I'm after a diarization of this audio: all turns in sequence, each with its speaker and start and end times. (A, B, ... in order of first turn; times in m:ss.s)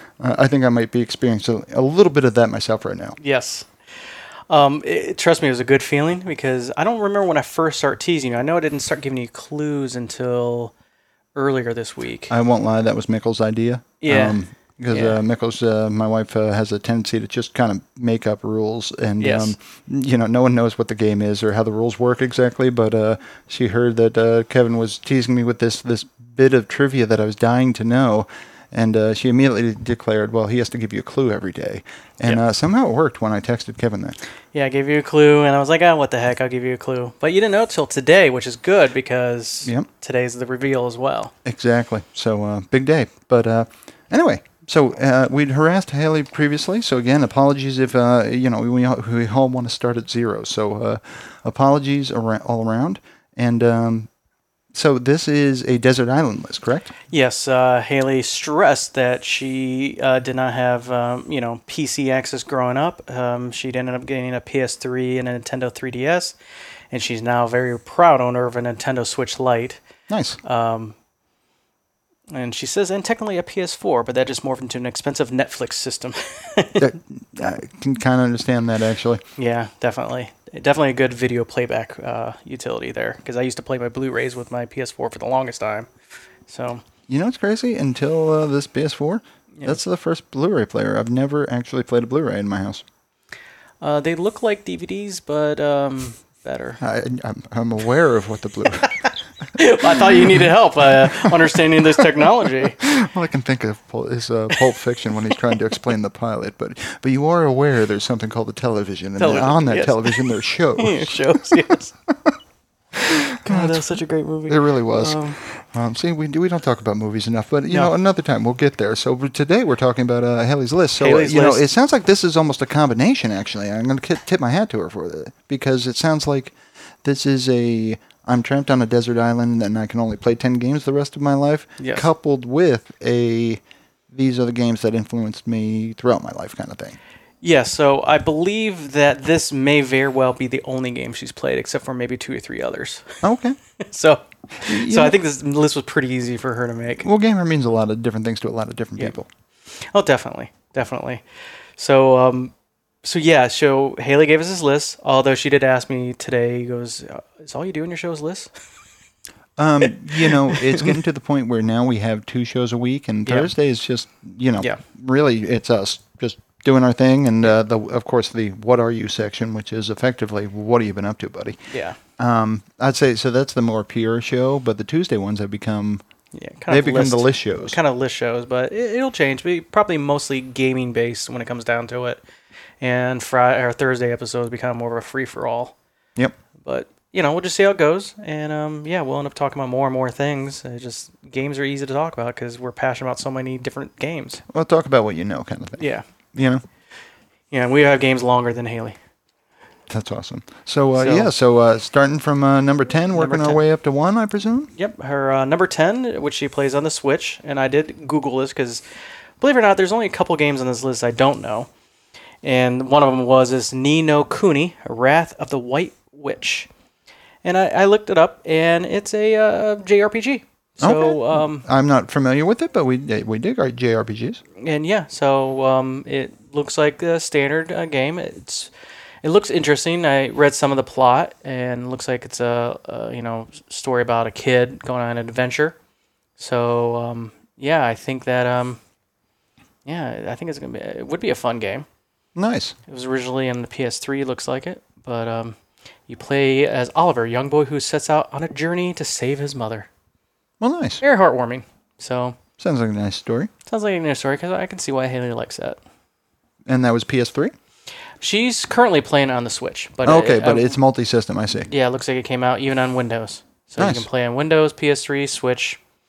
0:00.2-0:03.2 A
0:03.2-0:03.7 B
0:04.5-0:10.7 B
0:11.3-0:12.3 B
0:12.3-0:34.2 A
0:14.0-0:15.2 B
0:19.2-0:19.5 B
0:34.5-0:41.3 B
0:41.4-0:54.1 A
0:54.7-0:56.9 A
0:57.1-1:06.3 B
1:06.9-1:09.8 B
1:10.1-1:10.4 A
1:10.4-1:11.0 B
1:12.3-1:16.9 B
1:16.8-1:19.2 A
1:19.4-1:25.9 B
1:26.5-1:26.8 B
1:27.1-1:32.8 A
1:33.8-1:36.8 B
1:36.8-1:52.3 A
1:39.6-1:42.8 B
1:49.2-1:51.9 B
1:52.9-1:54.0 A
1:53.4-1:55.4 B
1:54.5-2:17.0 A
2:01.0-2:01.6 B
2:11.8-2:12.1 B
2:17.4-2:23.2 B
2:23.2-2:23.6 A
2:23.8-2:27.0 B
2:24.6-2:25.2 A
2:27.0-2:29.3 A
2:29.8-2:31.2 B
2:31.8-2:38.5 B
2:39.6-2:51.6 A
2:39.8-2:40.9 B
2:43.2-2:43.5 B
2:51.7-2:52.0 B
2:52.2-2:56.0 A
2:56.3-3:02.2 B
2:56.7-2:57.8 A
3:02.8-3:05.8 B
3:06.6-3:14.4 B
3:14.5-3:16.6 A
3:15.8-3:16.0 B
3:17.5-3:19.0 B
3:19.9-3:24.7 A
3:21.0-3:21.3 B
3:23.1-3:23.6 B
3:24.8-3:28.8 B
3:29.4-3:31.7 B
3:32.4-3:36.7 B
3:37.4-3:41.6 B
3:40.8-3:44.4 A
3:44.6-3:48.7 B
3:49.2-3:55.8 B
3:56.4-3:58.8 B
3:59.8-4:01.8 B
4:02.3-4:02.8 A
4:02.9-4:05.6 B
4:06.1-4:09.9 B
4:10.6-4:11.0 A
4:11.0-4:12.4 B
4:12.6-4:13.5 A
4:13.7-4:15.8 B
4:16.6-4:17.5 A
4:18.2-4:20.8 B
4:20.0-4:21.7 A
4:21.7-4:25.8 B
4:23.8-4:24.1 A